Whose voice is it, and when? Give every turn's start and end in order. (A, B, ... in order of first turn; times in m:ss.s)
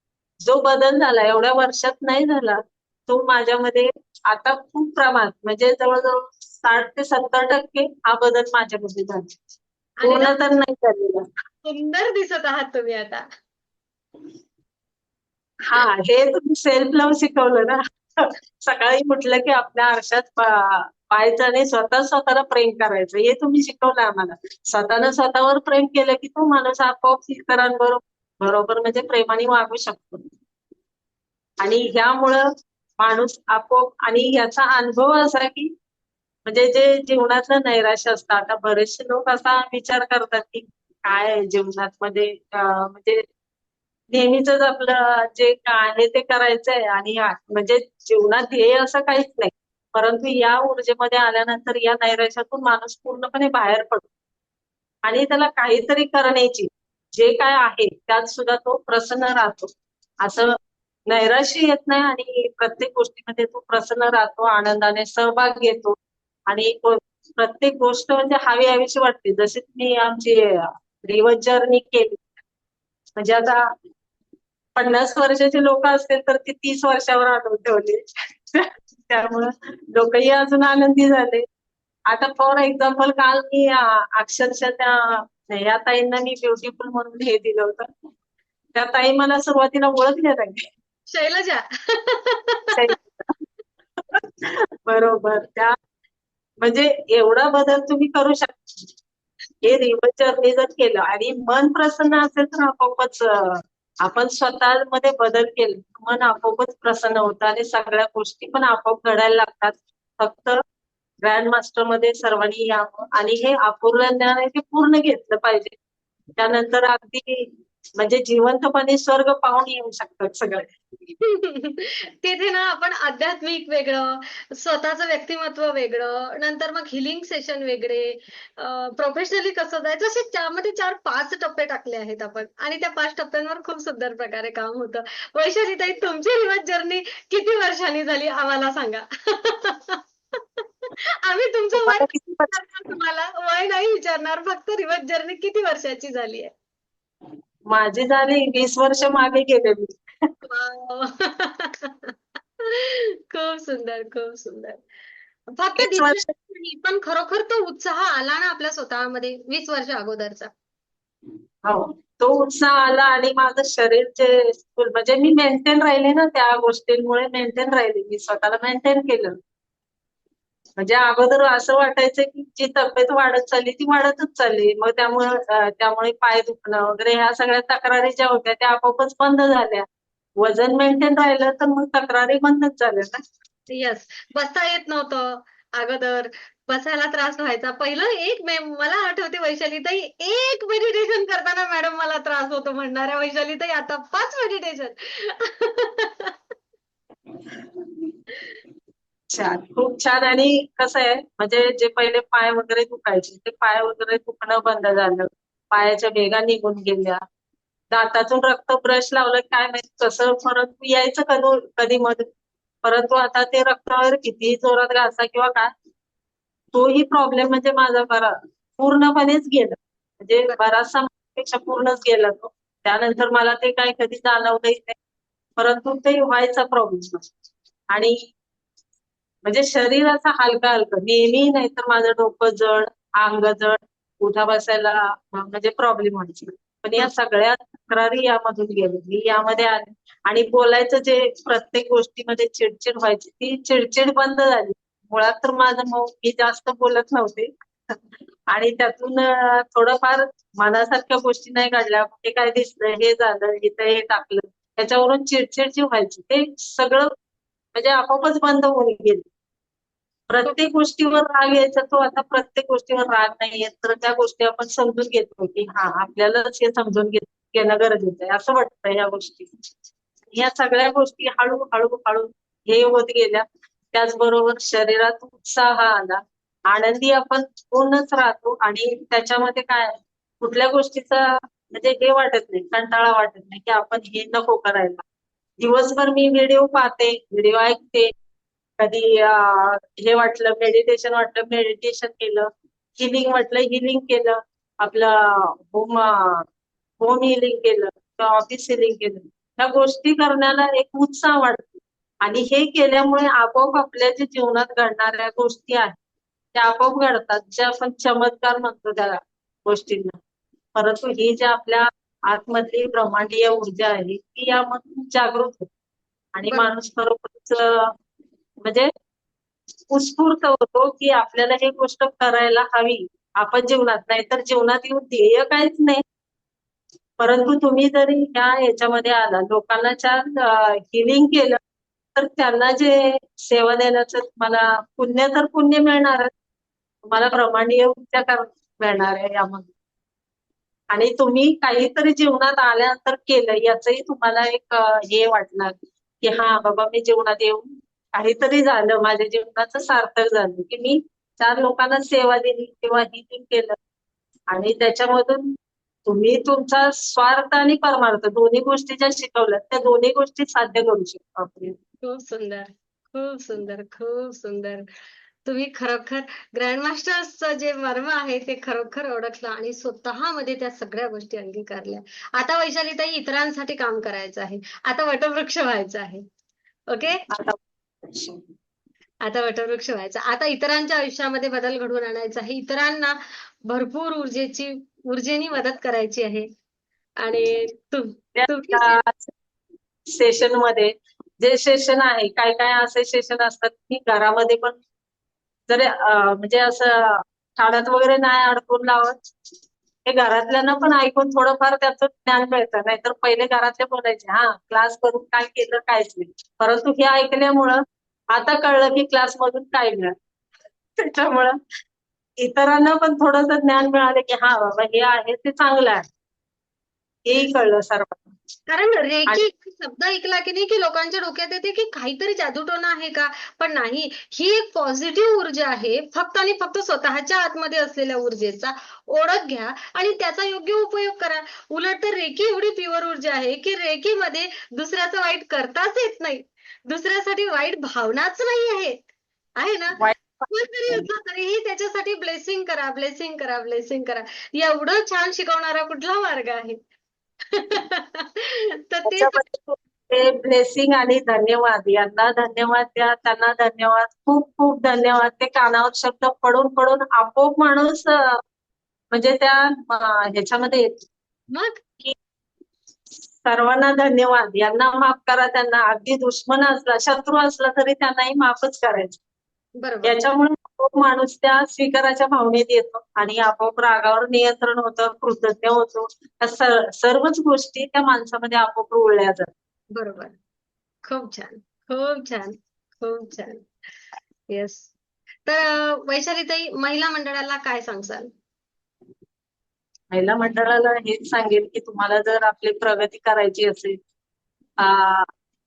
0:00.4-0:09.4 A
0:10.0-0:10.4 B
0:10.0-0:11.3 A
0:11.6-0:13.2 B
0:15.6-0:30.2 A
0:31.6-0:32.5 A
0:33.0-0:35.7 A
0:36.5-0:43.2 A
0:44.1-0:54.1 A
0:55.1-0:59.7 A
1:00.2-1:00.6 A
1:01.1-1:06.0 A
1:06.5-1:12.2 A
1:13.2-1:13.7 A
1:14.8-1:18.0 A
1:18.5-1:21.4 A
1:22.1-1:27.9 A
1:28.8-1:30.6 A
1:31.1-1:33.0 B
1:32.7-1:33.4 A
1:34.0-1:35.8 A
1:36.6-1:38.6 A
1:39.6-1:50.6 A
1:51.2-1:55.8 A
1:56.4-2:00.8 A
2:01.2-2:26.5 B
2:21.8-2:22.6 A
2:27.7-2:30.0 A
2:30.4-2:34.8 B
2:35.5-2:40.5 B
2:35.8-2:36.2 A
2:41.6-2:49.4 A
2:50.8-2:59.9 A
3:00.4-3:03.2 A
3:03.7-3:16.4 B
3:19.3-3:27.2 A
3:27.9-3:32.3 A
3:32.8-3:35.7 A
3:36.7-3:45.0 A
3:45.6-3:47.3 A
3:47.9-3:48.3 A
3:49.4-4:17.1 A
4:17.8-4:19.2 A
4:20.3-4:29.5 A
4:30.3-4:45.0 A
4:45.6-4:48.1 A
4:48.8-4:56.5 A
4:57.0-5:06.0 A
5:06.5-5:10.2 A
5:10.8-5:15.7 A
5:16.4-5:17.9 A
5:18.6-5:18.9 A
5:19.9-5:26.0 A
5:27.2-5:31.6 A
5:32.2-5:36.3 A
5:37.0-5:39.7 A
5:40.9-5:53.8 A
5:54.5-5:55.6 A
5:56.1-6:01.8 A
6:02.0-6:04.8 B
6:05.4-6:16.2 B
6:16.9-6:17.2 B
6:17.3-6:18.4 A
6:19.2-6:26.5 B
6:27.2-6:29.0 B
6:28.4-6:29.3 A
6:30.1-6:34.8 A
6:35.7-6:39.2 A
6:40.1-6:50.2 A
6:51.0-6:51.6 A
6:52.4-6:56.1 A
6:57.2-6:58.3 A
6:58.7-7:19.0 B
7:19.6-7:20.0 B
7:20.0-7:21.1 A
7:20.5-7:26.8 B
7:27.5-7:29.4 B
7:29.1-7:38.4 A
7:39.1-7:41.1 A
7:41.5-7:41.8 B
7:43.4-7:49.2 A
7:49.8-7:50.2 B
7:50.0-7:59.5 A
8:00.0-8:00.3 B
8:01.0-8:03.7 B
8:04.5-8:04.9 B
8:05.5-8:08.3 B
8:10.1-8:14.0 A
8:14.8-8:15.3 A